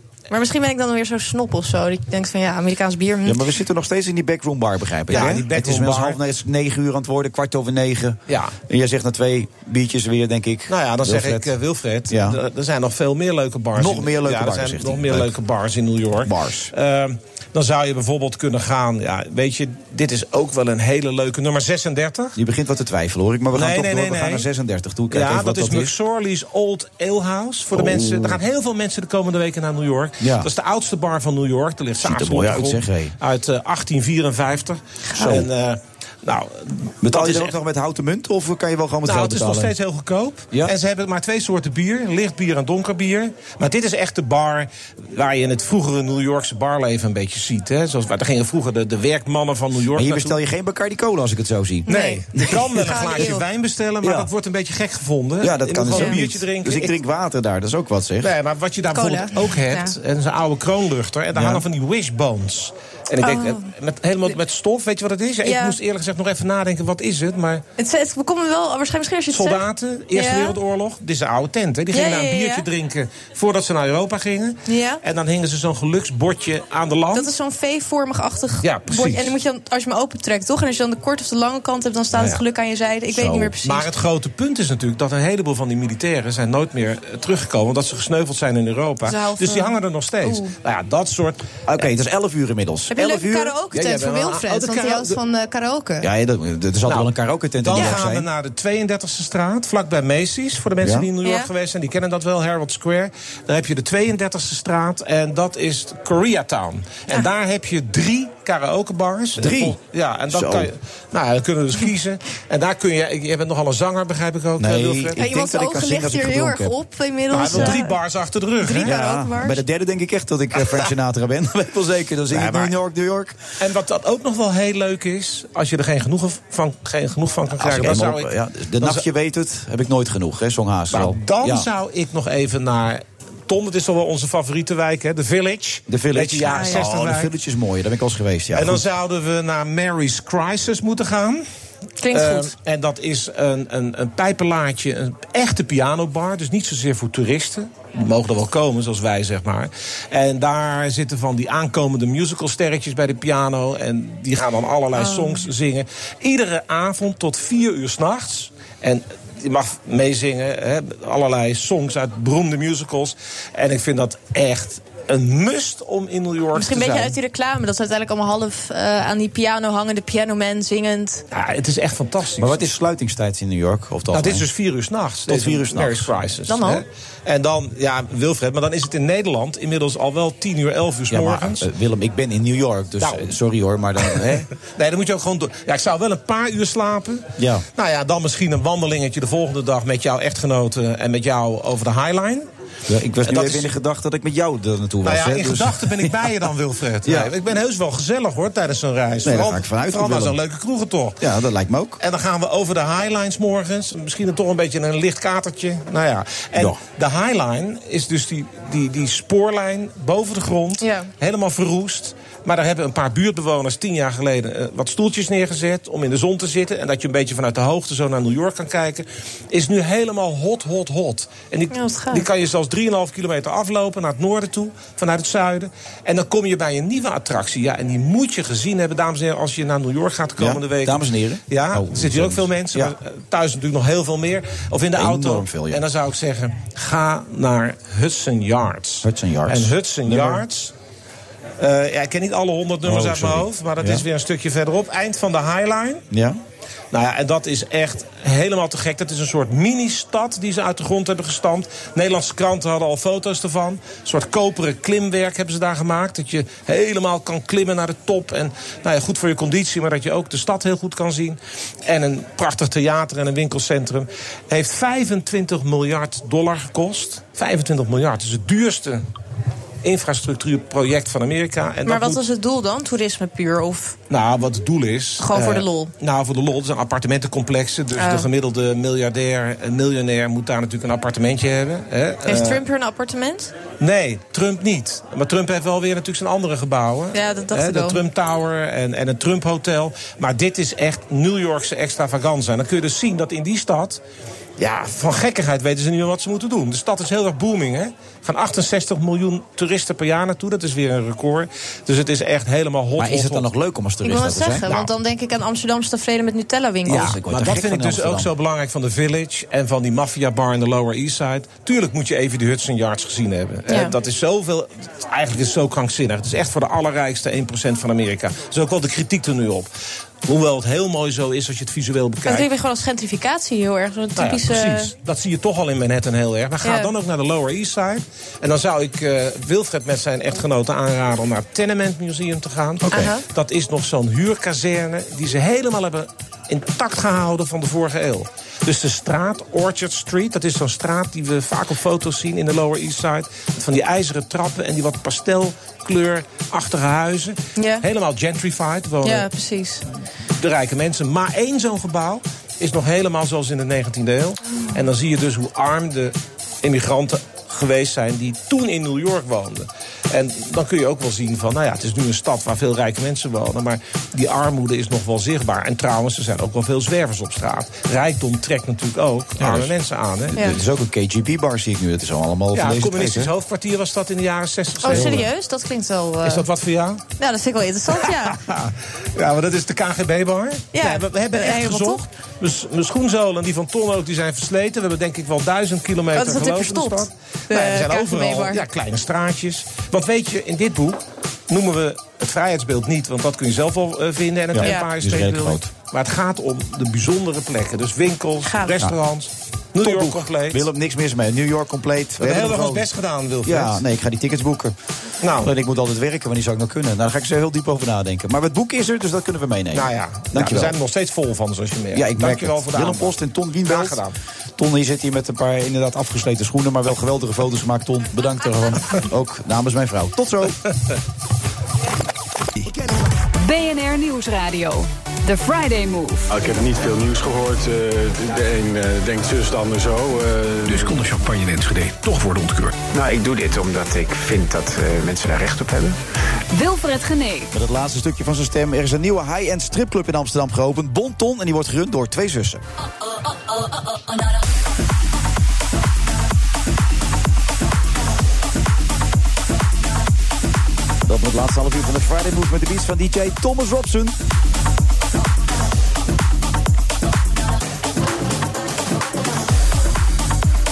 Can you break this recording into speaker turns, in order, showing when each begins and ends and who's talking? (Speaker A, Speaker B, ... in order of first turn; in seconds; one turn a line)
Speaker A: 0.3-3.4
Speaker B: 3.2-11.5
Speaker C: 5.1-6.2
Speaker A: 5.1-5.4
Speaker C: 8.3-8.5
Speaker C: 10.7-22.4
Speaker B: 12.1-12.4
Speaker B: 13.8-15.3
Speaker B: 16.2-16.7
Speaker B: 22.4-25.9
Speaker C: 23.5-24.5
Speaker C: 25.1-37.5
Speaker B: 27.7-28.4
Speaker B: 30.2-30.5
Speaker B: 32.0-33.1
Speaker B: 35.1-35.5
Speaker B: 37.0-39.7
Speaker C: 39.0-50.4
Speaker B: 50.0-52.6
Speaker A: 51.9-53.4
Speaker C: 51.9-57.0
Speaker B: 54.0-54.3
Speaker B: 55.4-58.3
Speaker A: 55.9-56.2
Speaker C: 58.2-67.6
Speaker A: 58.9-59.9
Speaker B: 61.3-61.6
Speaker A: 63.2-63.7
Speaker A: 65.4-65.8
Speaker A: 67.8-69.6
Speaker C: 69.3-77.3
Speaker A: 70.1-70.6
Speaker A: 71.9-72.7
Speaker A: 74.7-75.0
Speaker A: 77.1-83.8
Speaker C: 78.6-79.4
Speaker C: 82.1-82.4
Speaker B: 83.1-83.5
Speaker C: 83.6-91.6
Speaker A: 89.0-90.5
Speaker B: 91.7-93.6
Speaker A: 92.9-96.1
Speaker C: 93.7-95.2
Speaker B: 96.0-98.2
Speaker C: 96.8-115.2
Speaker A: 97.7-98.0
Speaker B: 100.8-101.1
Speaker A: 101.2-101.5
Speaker B: 109.4-109.8
Speaker B: 110.3-110.7
Speaker B: 114.6-116.7
Speaker A: 115.1-118.0
Speaker C: 117.3-119.0
Speaker B: 117.4-117.7
Speaker A: 118.6-119.6
Speaker B: 118.8-123.4
Speaker C: 122.3-122.7
Speaker C: 123.6-129.1
Speaker B: 127.6-131.7
Speaker C: 130.9-137.3
Speaker B: 135.9-138.8
Speaker A: 136.5-136.8
Speaker C: 138.5-141.4
Speaker A: 142.0-142.5
Speaker C: 142.1-167.2
Speaker A: 154.9-155.4
Speaker A: 166.5-171.2
Speaker C: 171.3-172.7
Speaker B: 172.4-174.4
Speaker C: 174.1-181.7
Speaker B: 175.3-176.1
Speaker A: 176.5-176.8
Speaker B: 181.1-184.4
Speaker C: 183.0-183.3
Speaker C: 184.0-192.4
Speaker B: 187.4-187.6
Speaker B: 192.9-196.1
Speaker C: 193.2-193.7
Speaker C: 195.0-201.2
Speaker B: 197.0-197.3
Speaker B: 199.2-200.3
Speaker B: 201.2-202.0
Speaker C: 202.0-240.7
Speaker A: 210.8-211.1
Speaker A: 221.7-222.2
Speaker B: 230.4-232.9
Speaker B: 234.9-235.8
Speaker B: 239.0-240.4
Speaker C: 241.6-246.0
Speaker B: 242.8-244.0
Speaker B: 246.1-246.4
Speaker C: 246.9-269.0
Speaker C: 269.8-272.2
Speaker A: 271.9-273.9
Speaker C: 274.1-282.6
Speaker A: 275.2-275.9
Speaker A: 278.0-278.3
Speaker A: 282.2-283.5
Speaker C: 283.8-294.0
Speaker A: 287.1-288.0
Speaker C: 294.6-303.5
Speaker B: 303.0-304.7
Speaker A: 304.0-307.2
Speaker C: 304.6-304.9
Speaker B: 306.9-308.3
Speaker C: 306.9-319.7
Speaker A: 313.7-313.9
Speaker C: 320.2-322.5
Speaker A: 322.2-324.9
Speaker C: 324.1-349.3
Speaker A: 326.6-326.9
Speaker B: 332.8-333.1
Speaker A: 332.9-333.2
Speaker A: 347.6-347.8
Speaker A: 349.0-349.8
Speaker C: 350.4-370.5
Speaker B: 369.4-369.7
Speaker B: 370.3-373.3
Speaker A: 370.3-370.6
Speaker C: 372.5-375.3
Speaker A: 374.8-376.4
Speaker B: 374.9-375.2
Speaker C: 376.2-377.0
Speaker A: 377.2-378.4
Speaker C: 377.9-400.7
Speaker A: 380.7-382.0
Speaker A: 386.1-388.6
Speaker B: 394.5-395.7
Speaker A: 394.6-394.9
Speaker A: 398.4-398.8
Speaker B: 399.8-402.9
Speaker C: 402.2-403.8
Speaker B: 403.4-404.7
Speaker C: 405.2-405.5
Speaker B: 405.4-410.7
Speaker C: 409.7-414.1
Speaker B: 411.9-414.0
Speaker B: 414.6-420.6
Speaker D: 423.4-426.2
Speaker E: 426.3-431.1
Speaker C: 430.7-432.7
Speaker F: 432.9-436.0
Speaker D: 436.5-437.5
Speaker B: 437.5-442.6
Speaker B: 451.0-454.1